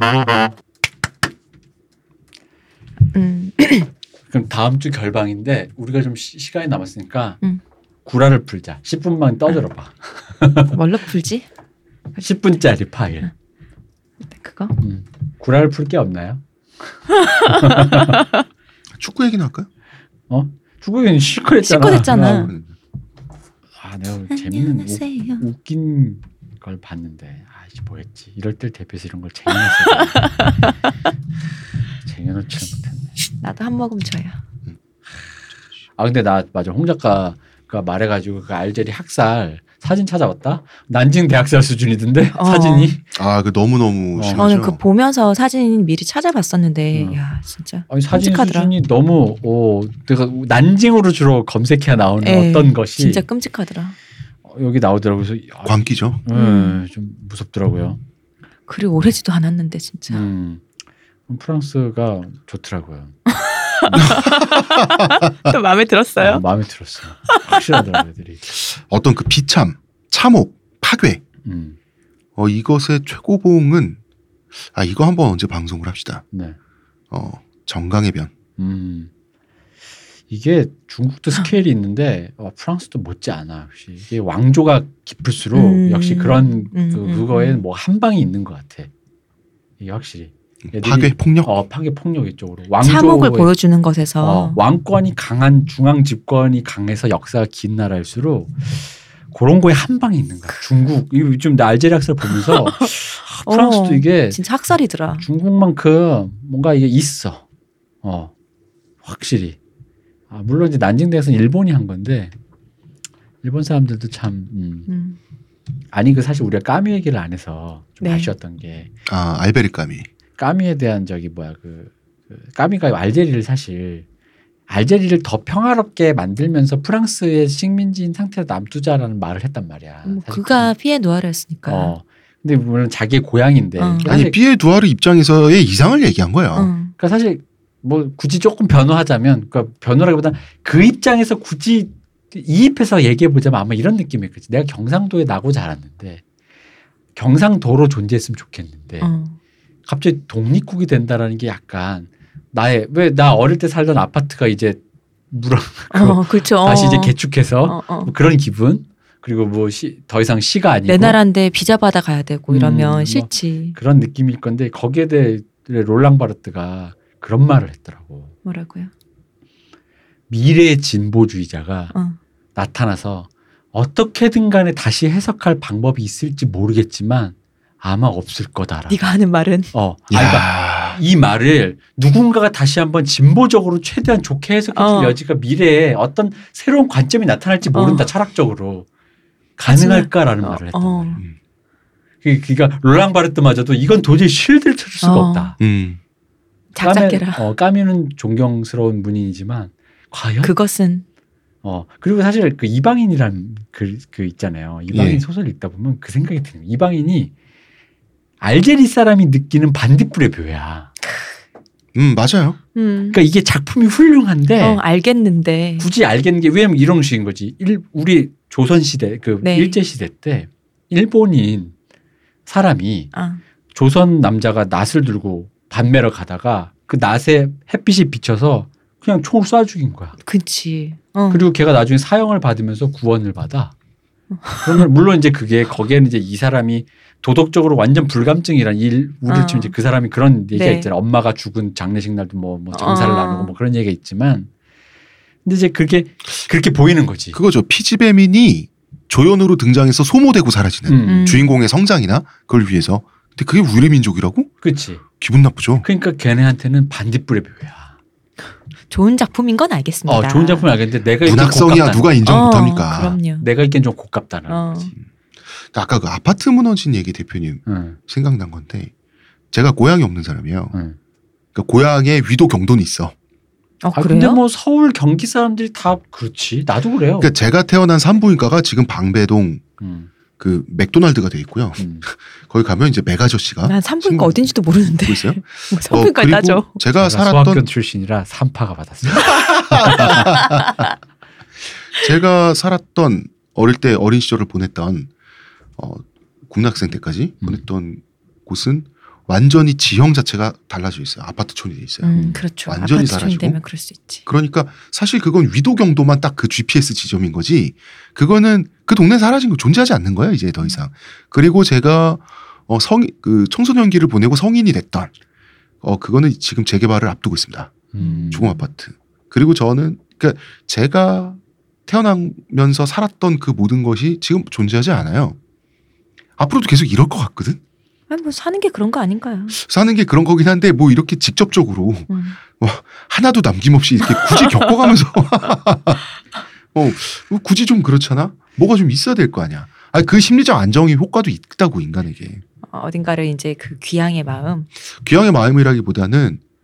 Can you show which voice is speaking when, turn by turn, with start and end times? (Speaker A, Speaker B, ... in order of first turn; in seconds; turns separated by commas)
Speaker A: 3.1-3.9, Speaker B: 4.3-7.4, Speaker B: 8.1-10.8, Speaker A: 10.7-11.4, Speaker B: 12.2-13.3, Speaker A: 14.3-14.8, Speaker B: 14.8-16.4, Speaker B: 17.2-18.2, Speaker A: 17.3-18.2, Speaker C: 19.0-19.7, Speaker B: 20.3-22.5, Speaker A: 21.6-22.5, Speaker C: 22.2-22.7, Speaker B: 23.8-30.7, Speaker A: 24.3-25.4, Speaker A: 30.1-30.7, Speaker B: 32.0-33.1, Speaker A: 33.4-34.3, Speaker B: 36.0-43.1, Speaker A: 42.3-43.0, Speaker C: 43.1-44.8, Speaker B: 44.1-44.4, Speaker A: 44.4-48.7, Speaker B: 46.9-47.2, Speaker B: 47.9-53.2, Speaker A: 52.2-53.9, Speaker B: 54.5-58.0, Speaker C: 55.6-56.2, Speaker A: 56.3-56.8, Speaker A: 58.7-60.2, Speaker B: 60.1-60.6, Speaker B: 61.3-63.1, Speaker A: 63.3-66.4, Speaker B: 63.8-64.2, Speaker C: 63.9-65.0, Speaker B: 66.2-68.5, Speaker A: 67.3-67.6, Speaker C: 68.5-71.2, Speaker B: 71.4-71.8, Speaker C: 72.4-74.0, Speaker C: 74.6-76.2, Speaker C: 77.1-78.3, Speaker B: 78.6-79.1, Speaker B: 80.3-88.9, Speaker A: 85.5-87.6, Speaker B: 89.8-93.5, Speaker C: 90.7-91.5, Speaker A: 92.8-94.6, Speaker B: 94.2-104.4, Speaker A: 103.4-105.2, Speaker B: 105.2-107.4, Speaker B: 108.0-108.3, Speaker B: 109.0-109.5, Speaker B: 110.3-112.3, Speaker B: 113.4-114.9, Speaker A: 114.9-115.2, Speaker B: 115.9-118.9, Speaker A: 118.0-118.3, Speaker C: 119.1-120.1, Speaker B: 120.4-124.0, Speaker B: 124.7-130.7, Speaker A: 130.1-131.9, Speaker B: 131.7-134.4, Speaker A: 133.8-134.2, Speaker C: 134.1-136.7, Speaker A: 136.5-136.9, Speaker B: 136.9-146.2, Speaker B: 147.2-149.1, Speaker A: 149.0-149.3, Speaker B: 149.9-154.8, Speaker B: 155.3-161.2, Speaker A: 155.9-158.1, Speaker A: 160.8-163.8, Speaker B: 162.5-168.3, Speaker A: 168.4-168.9, Speaker B: 170.3-171.9, Speaker A: 171.9-172.2, Speaker B: 172.6-179.0, Speaker A: 178.9-179.7, Speaker B: 179.7-188.9, Speaker C: 180.1-181.0, Speaker A: 184.7-185.2, Speaker A: 187.7-188.1, Speaker B: 189.6-191.2, Speaker A: 189.7-191.2, Speaker B: 192.2-195.6, Speaker A: 195.0-195.5, Speaker C: 195.6-196.0, Speaker A: 196.7-197.4, Speaker B: 196.8-200.6, Speaker A: 200.4-201.0, Speaker B: 201.6-207.3, Speaker C: 204.9-205.2, Speaker B: 208.4-210.9, Speaker C: 211.9-212.6, Speaker A: 212.7-213.2, Speaker B: 213.1-214.8, Speaker A: 214.6-215.9, Speaker B: 215.8-221.7, Speaker A: 219.4-219.8, Speaker B: 222.5-223.1, Speaker A: 223.1-223.4, Speaker B: 223.7-230.2, Speaker A: 230.2-231.5, Speaker B: 231.3-233.7, Speaker A: 234.4-234.8, Speaker B: 234.6-244.5, Speaker A: 239.3-239.7, Speaker A: 240.5-240.9, Speaker A: 242.7-243.5, Speaker B: 245.4-247.4, Speaker C: 247.3-254.5, Speaker B: 250.8-251.4, Speaker A: 251.0-251.5, Speaker B: 254.6-255.0, Speaker C: 255.2-255.8, Speaker B: 255.8-257.9, Speaker A: 258.9-260.7, Speaker B: 260.1-262.2, Speaker C: 261.2-263.2, Speaker A: 262.2-263.5, Speaker B: 263.4-264.9, Speaker A: 264.5-264.9, Speaker C: 265.6-268.9, Speaker B: 267.6-268.0, Speaker C: 269.5-270.7, Speaker C: 271.5-273.1, Speaker A: 273.8-274.4, Speaker B: 273.9-277.3, Speaker C: 277.2-279.6, Speaker B: 279.8-280.1, Speaker C: 280.4-287.6, Speaker B: 281.8-282.1, Speaker A: 283.6-286.7, Speaker B: 286.9-290.4, Speaker C: 289.1-290.8, Speaker C: 291.9-295.1, Speaker C: 295.8-303.6, Speaker A: 302.0-304.2, Speaker B: 302.1-302.4, Speaker C: 304.2-315.1, Speaker C: 315.8-325.4, Speaker B: 317.9-318.6, Speaker A: 318.0-318.6, Speaker C: 326.4-327.6, Speaker A: 328.1-329.6, Speaker C: 329.6-336.0, Speaker A: 332.1-332.4, Speaker A: 334.0-334.9, Speaker C: 336.7-342.4, Speaker A: 342.7-344.7, Speaker C: 344.9-346.4